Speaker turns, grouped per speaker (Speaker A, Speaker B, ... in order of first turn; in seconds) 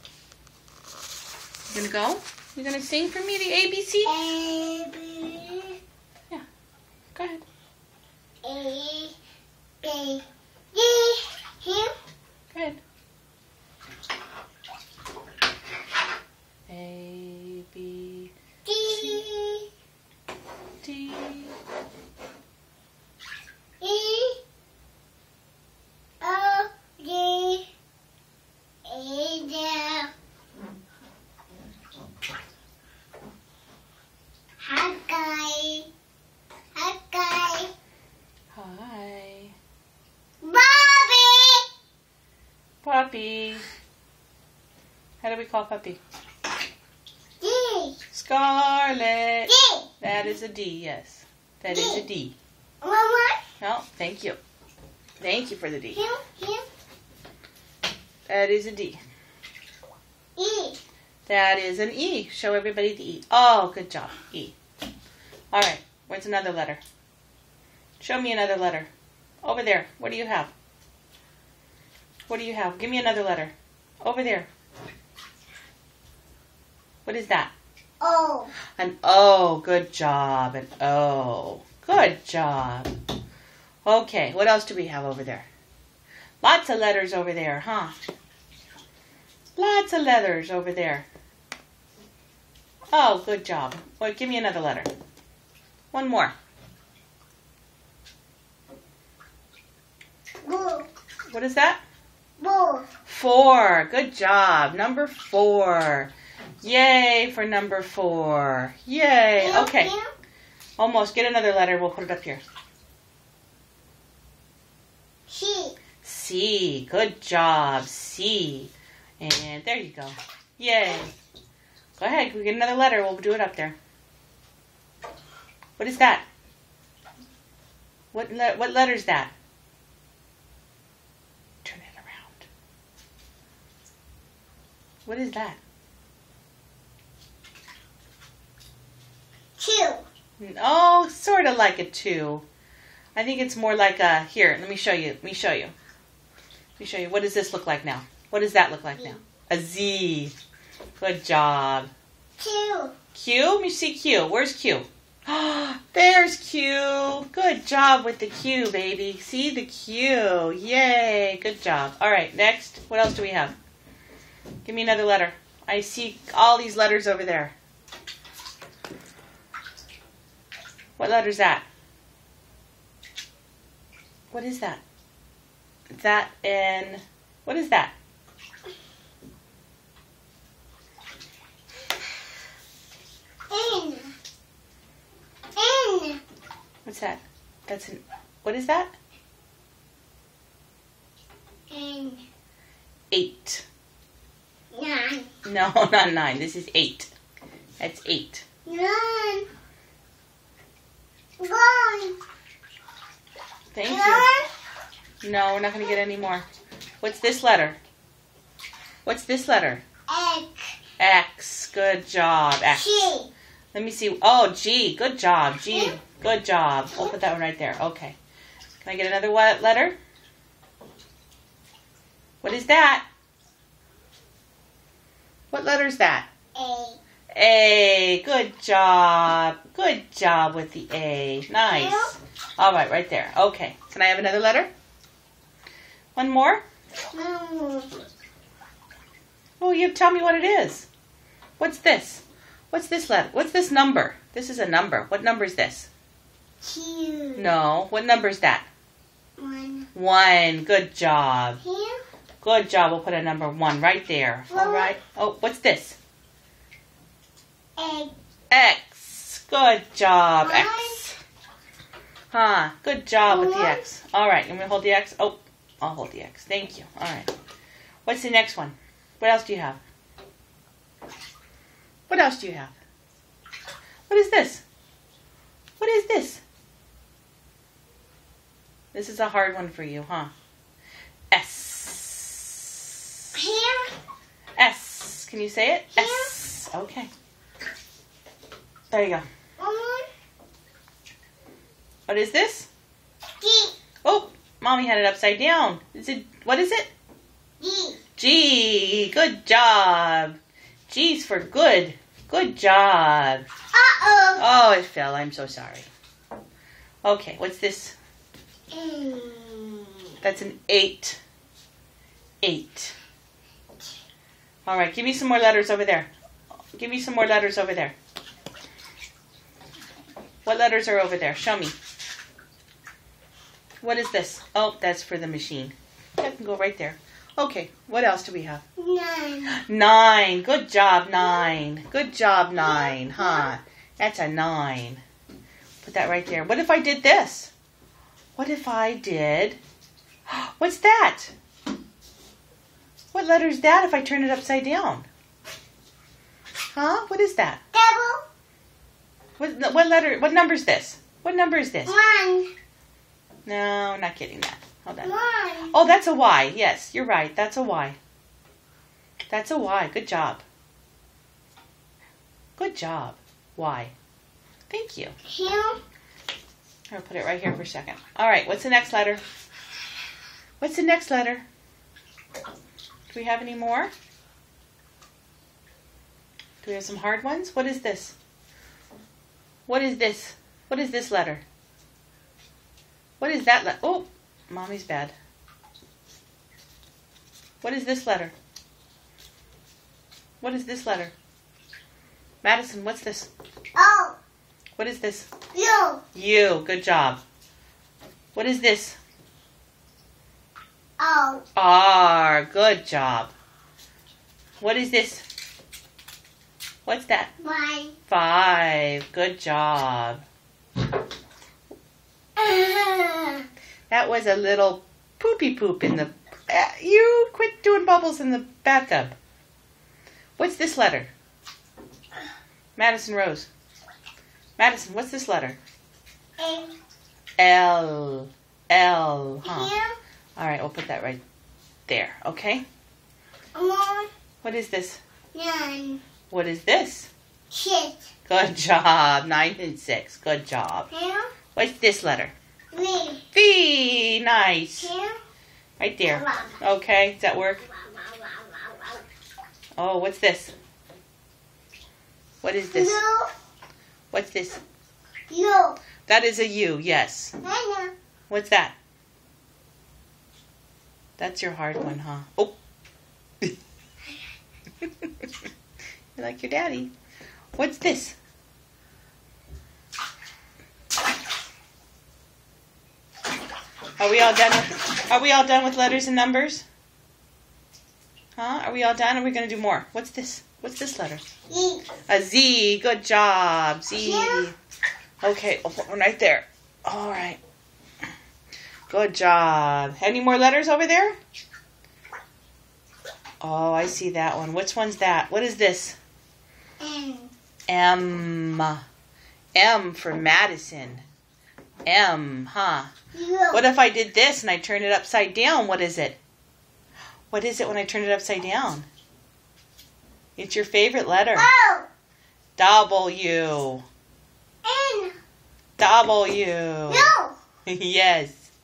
Speaker A: 1.7-4.2, 7.2-7.4, 12.5-12.8, 16.7-18.3, 18.9-19.2, 20.8-21.6, 38.5-39.5, 42.8-43.6, 45.2-46.0, 48.1-52.4, 53.6-54.4, 55.2-56.0, 58.3-59.0, 61.3-64.5, 65.5-66.8, 68.0-68.9, 69.4-70.5, 72.3-74.5, 77.0-77.5, 78.8-82.9, 83.8-85.5, 86.4-88.0, 89.6-91.1, 92.9-94.9, 95.9-96.3, 101.3-101.8, 103.1-106.1, 106.6-109.9, 110.8-112.4, 116.0-121.1, 122.0-123.8, 125.8-126.3, 128.1-129.3, 131.6-132.5, 135.1-135.6, 140.4-142.4, 143.2-145.7, 146.8-150.3, 151.0-151.9, 153.1-163.6, 164.7-167.5, 171.0-171.7, 174.3-174.8, 175.9-177.9, 186.8-188.9, 193.1-193.7, 195.4-197.1, 197.8-198.4, 203.7-204.3, 205.2-206.5, 207.0-207.8, 209.1-209.8, 211.0-213.1, 213.7-218.2, 218.8-220.0, 222.4-223.1, 225.5-226.3, 227.3-234.7, 236.2-236.6, 239.6-240.9, 241.6-245.9, 247.4-248.7, 249.9-251.6, 252.4-256.0, 258.5-261.1, 262.3-267.3, 268.1-269.8, 272.1-272.8, 274.1-274.6, 275.8-276.4, 278.9-280.3, 281.3-282.8, 284.6-287.1, 288.9-289.3, 292.1-292.7, 294.0-296.9, 298.2-303.5, 304.4-305.9, 307.0-308.0, 310.2-311.2, 312.4-312.9, 314.7-316.1, 316.8-318.0, 320.4-321.8, 323.8-328.6, 329.5-335.0, 335.8-337.5, 338.4-339.6, 340.3-341.3, 343.1-345.1, 346.7-347.6, 349.4-351.9, 353.5-355.1, 355.7-358.0, 359.3-360.4, 362.6-363.9, 364.7-365.2, 366.9-369.2, 370.6-371.4, 373.1-373.9, 376.6-378.1, 379.7-381.4, 383.2-385.1, 387.6-388.3, 390.4-391.1, 392.4-393.3, 394.8-395.3, 396.1-397.2, 398.4-399.0, 401.6-403.3, 404.6-405.3, 406.9-407.3, 408.1-410.2, 413.9-419.2, 420.4-421.1, 422.8-423.5, 424.6-425.6, 427.4-429.7, 430.4-431.2, 431.9-432.6, 434.4-435.0, 436.3-437.1, 438.3-440.9, 441.6-442.3, 443.3-444.9, 445.8-447.6, 449.8-450.5, 452.4-453.0, 454.1-454.6, 456.1-457.4, 458.3-458.8, 461.2-462.6, 466.2-466.9, 467.6-468.2, 474.0-476.6, 478.4-481.2, 482.1-484.6, 485.2-487.4, 488.9-491.2, 493.4-496.0, 497.7-498.8, 499.6-501.1, 501.9-502.9, 503.5-506.2, 507.3-508.9, 510.4-511.5, 512.6-513.8, 515.8-517.1, 517.7-518.5
Speaker B: 4.1-5.8, 8.4-9.2, 9.8-11.9, 18.7-19.7, 23.8-24.4, 26.2-27.7, 28.9-30.1, 34.6-35.9, 36.8-37.7, 40.4-41.6, 47.4-48.0, 49.5-49.9, 51.7-52.0, 52.8-53.4, 55.9-56.6, 60.4-60.8, 78.0-78.5, 100.4-100.9, 102.4-102.9, 109.4-110.1, 115.3-115.8, 139.6-140.1, 152.4-152.9, 183.5-184.1, 185.6-186.2, 191.7-192.2, 194.7-195.3, 198.7-199.5, 201.4-202.2, 203.8-204.5, 210.1-210.6, 212.7-213.3, 215.7-216.0, 226.6-227.0, 231.7-232.1, 237.1-237.9, 246.6-247.5, 249.4-249.9, 251.6-252.0, 254.5-255.0, 257.8-258.1, 260.4-261.1, 263.3-263.8, 283.3-283.9, 285.9-286.3, 289.6-290.1, 293.4-293.8, 297.6-298.0, 303.7-304.4, 308.7-310.1, 328.8-329.6, 331.2-331.5, 332.6-333.5, 347.7-348.2, 351.9-352.5, 355.0-355.7, 365.3-365.8, 393.8-394.2, 395.5-396.0, 401.0-401.4, 407.4-407.9, 412.4-413.5, 426.4-426.8, 429.4-429.9, 433.6-434.1, 435.3-436.0, 437.5-438.1, 440.9-441.3, 442.7-443.2, 444.8-445.2, 446.1-446.6, 447.7-449.0, 452.7-453.3, 455.3-455.8, 457.4-457.9, 481.5-481.9, 484.0-484.5, 496.8-497.3, 503.1-503.6, 511.4-511.9, 514.6-515.1, 516.9-517.4